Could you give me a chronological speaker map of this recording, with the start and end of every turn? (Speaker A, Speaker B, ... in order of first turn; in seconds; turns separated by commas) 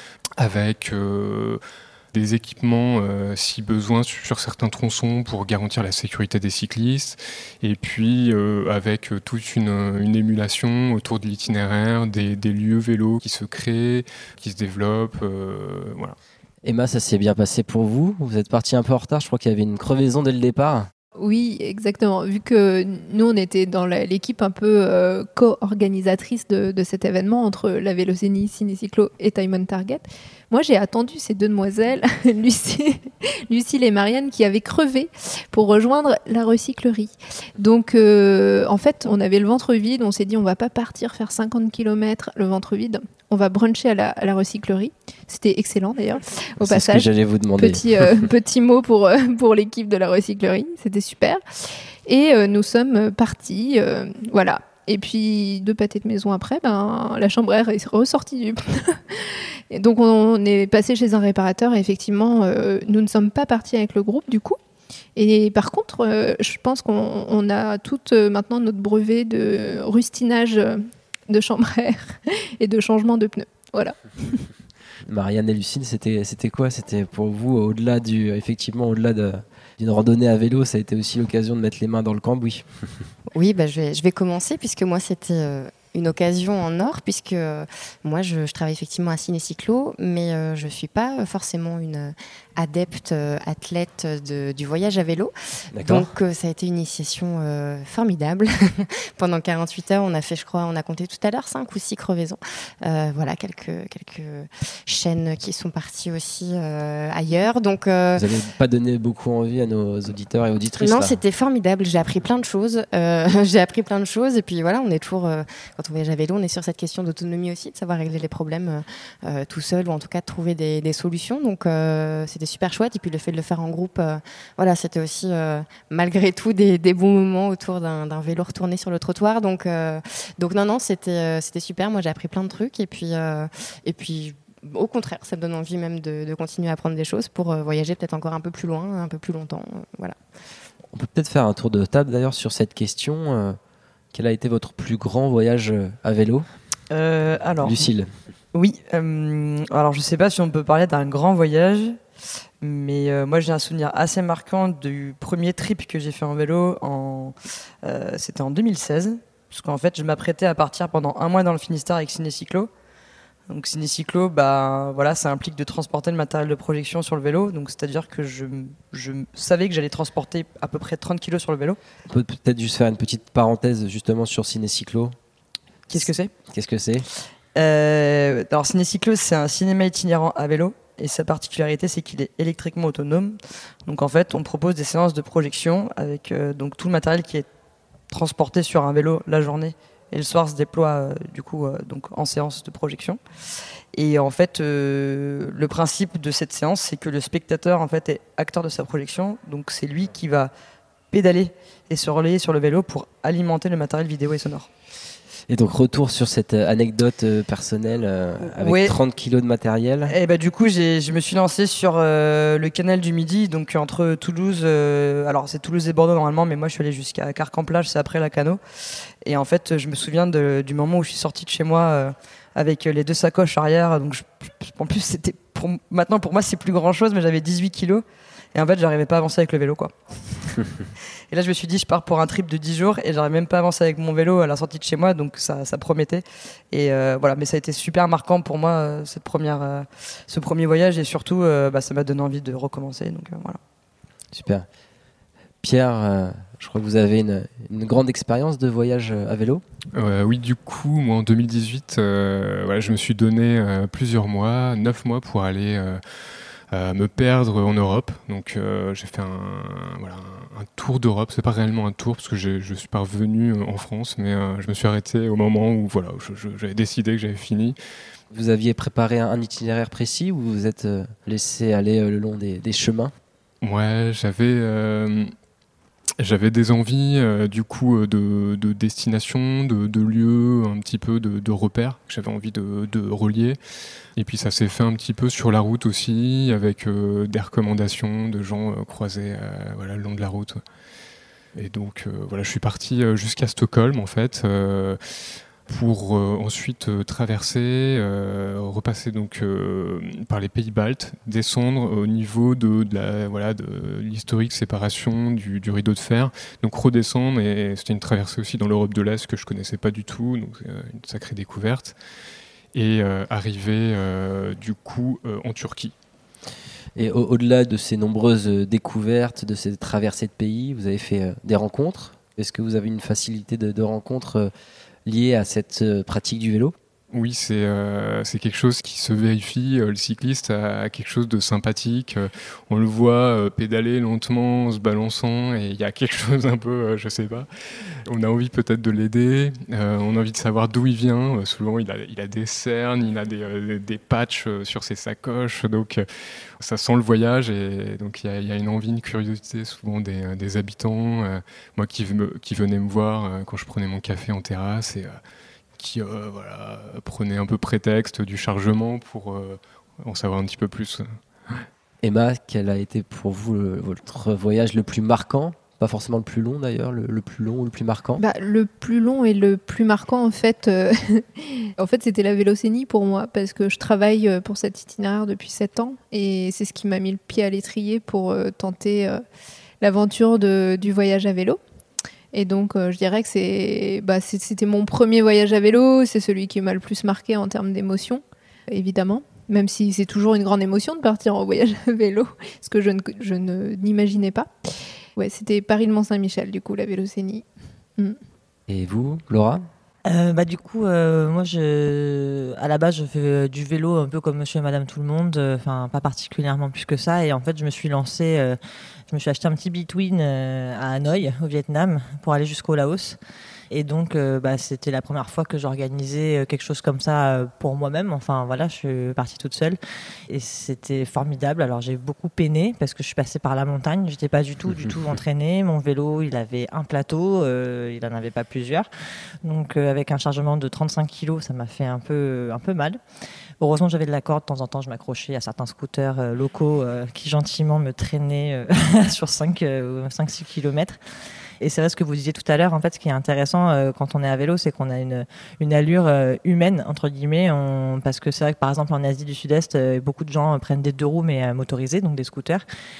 Speaker A: 0.4-1.6, Speaker A: 2.1-16.1, Speaker B: 16.6-20.9, Speaker C: 21.2-47.0, Speaker B: 46.6-48.3, Speaker C: 47.6-51.4, Speaker C: 52.0-64.6, Speaker C: 65.2-74.5, Speaker B: 75.0-82.7, Speaker D: 83.3-108.2, Speaker B: 95.7-96.1, Speaker B: 108.2-111.2, Speaker D: 110.8-140.2, Speaker B: 140.9-143.6, Speaker B: 144.1-146.4, Speaker E: 146.9-147.8, Speaker B: 147.6-148.1, Speaker E: 148.5-152.0, Speaker E: 152.6-162.7, Speaker E: 163.5-171.8, Speaker B: 172.1-175.2, Speaker E: 175.9-176.3, Speaker B: 175.9-177.1, Speaker E: 177.5-187.4, Speaker E: 188.1-193.2, Speaker E: 193.9-200.5, Speaker E: 201.1-204.7, Speaker B: 205.5-210.1, Speaker E: 208.6-208.9, Speaker E: 210.1-218.6, Speaker E: 219.2-230.6, Speaker E: 231.3-243.6, Speaker B: 244.3-244.7, Speaker B: 245.6-249.6, Speaker A: 249.9-256.0, Speaker A: 256.7-267.8, Speaker B: 268.3-273.1, Speaker A: 273.6-275.3, Speaker A: 276.2-283.6, Speaker A: 284.2-290.6, Speaker A: 291.5-295.0, Speaker A: 295.7-311.9, Speaker A: 312.7-315.9, Speaker B: 316.9-324.5, Speaker B: 325.1-326.8, Speaker A: 327.1-337.5, Speaker A: 338.1-346.0, Speaker A: 346.6-355.2, Speaker A: 355.8-361.6, Speaker B: 362.0-368.2, Speaker C: 368.2-379.2, Speaker C: 379.8-381.6, Speaker C: 382.3-394.5, Speaker C: 395.1-397.4, Speaker B: 398.7-399.6, Speaker F: 400.1-408.6, Speaker F: 409.1-413.2, Speaker F: 413.7-428.9, Speaker F: 429.4-433.0, Speaker F: 433.6-441.0, Speaker F: 441.6-452.6